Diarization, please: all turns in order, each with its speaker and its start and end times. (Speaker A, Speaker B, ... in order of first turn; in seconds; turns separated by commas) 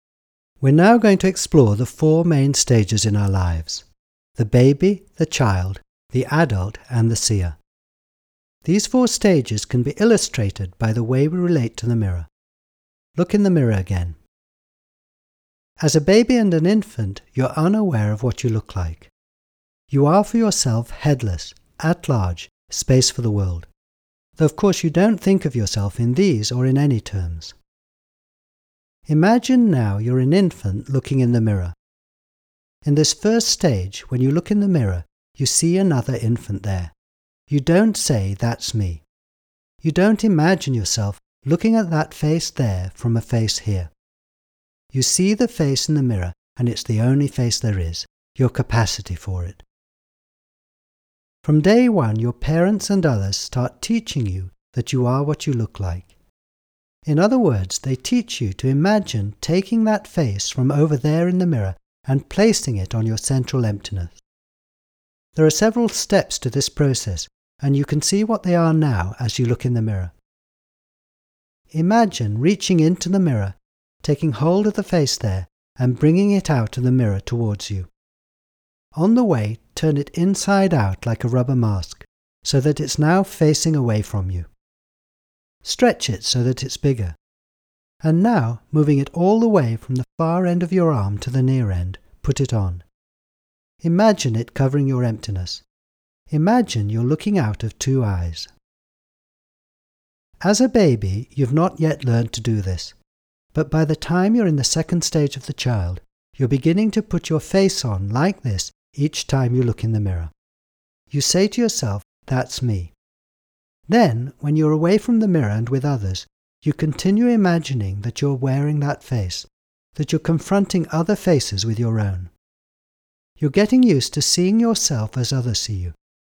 Speaker A: 0.6-3.9, Speaker A: 4.4-7.6, Speaker A: 8.6-12.3, Speaker A: 13.2-14.2, Speaker A: 15.8-19.1, Speaker A: 19.9-23.7, Speaker A: 24.4-27.6, Speaker A: 29.1-31.8, Speaker A: 32.9-36.9, Speaker A: 37.5-39.0, Speaker A: 39.8-43.9, Speaker A: 44.9-49.6, Speaker A: 51.4-56.1, Speaker A: 57.1-64.2, Speaker A: 65.4-70.1, Speaker A: 71.7-77.9, Speaker A: 79.0-84.5, Speaker A: 85.6-87.2, Speaker A: 88.0-92.9, Speaker A: 93.8-95.7, Speaker A: 96.3-98.5, Speaker A: 100.4-103.0, Speaker A: 103.5-110.3, Speaker A: 111.1-112.9, Speaker A: 113.9-122.3, Speaker A: 123.4-126.0